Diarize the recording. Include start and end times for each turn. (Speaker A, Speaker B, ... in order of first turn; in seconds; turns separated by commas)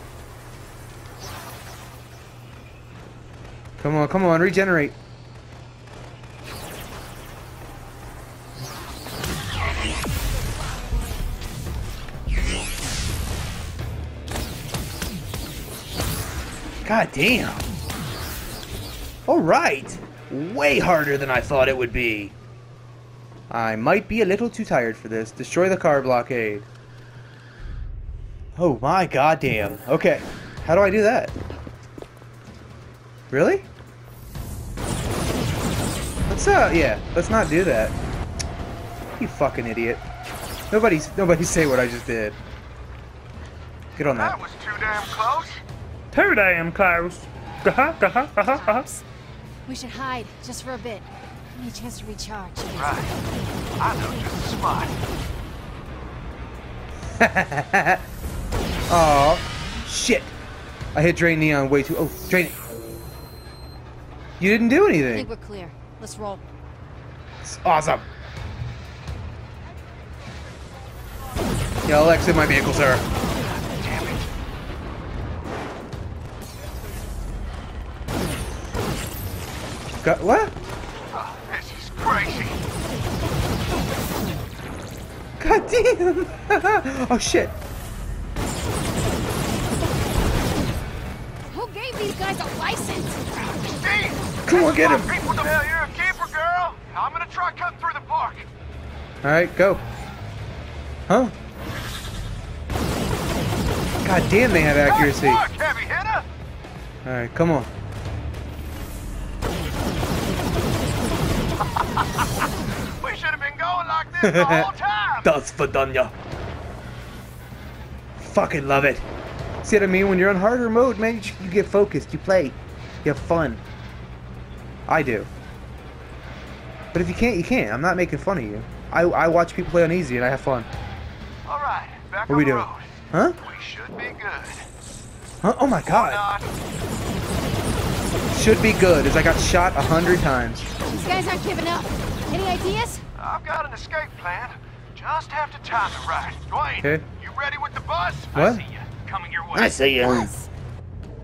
Speaker A: 3.8-5.0, Speaker A: 16.8-17.6, Speaker A: 19.3-22.3, Speaker A: 23.5-26.7, Speaker A: 28.6-31.3, Speaker A: 33.3-33.7, Speaker A: 36.3-37.9, Speaker A: 39.2-40.0, Speaker A: 40.7-42.4, Speaker A: 44.0-44.4, Speaker B: 44.0-45.6, Speaker A: 46.1-48.8, Speaker C: 48.1-49.0, Speaker C: 49.6-53.1, Speaker B: 52.8-53.1, Speaker B: 53.8-55.0, Speaker A: 57.2-58.0, Speaker A: 58.9-60.3, Speaker A: 60.9-62.6, Speaker A: 64.4-65.3, Speaker C: 65.1-66.4, Speaker A: 67.4-68.0, Speaker A: 71.8-73.0, Speaker B: 73.6-74.2, Speaker A: 80.0-80.5, Speaker B: 81.1-82.6, Speaker A: 85.4-87.5, Speaker C: 91.5-93.3, Speaker B: 93.4-98.5, Speaker A: 94.5-95.1, Speaker A: 99.2-99.8, Speaker A: 101.1-101.3, Speaker A: 104.0-105.4, Speaker B: 104.8-106.3, Speaker A: 107.0-107.7, Speaker B: 111.8-115.3, Speaker A: 114.2-114.7, Speaker A: 115.2-116.1, Speaker A: 118.2-119.0, Speaker A: 119.6-123.6, Speaker A: 124.9-125.3, Speaker A: 126.9-130.7, Speaker B: 131.4-134.7, Speaker A: 132.3-133.3, Speaker A: 135.4-136.2, Speaker B: 135.8-136.5, Speaker A: 138.3-140.7, Speaker C: 140.9-143.0, Speaker B: 143.2-149.8, Speaker A: 148.3-148.6, Speaker A: 149.5-150.3, Speaker C: 149.8-150.5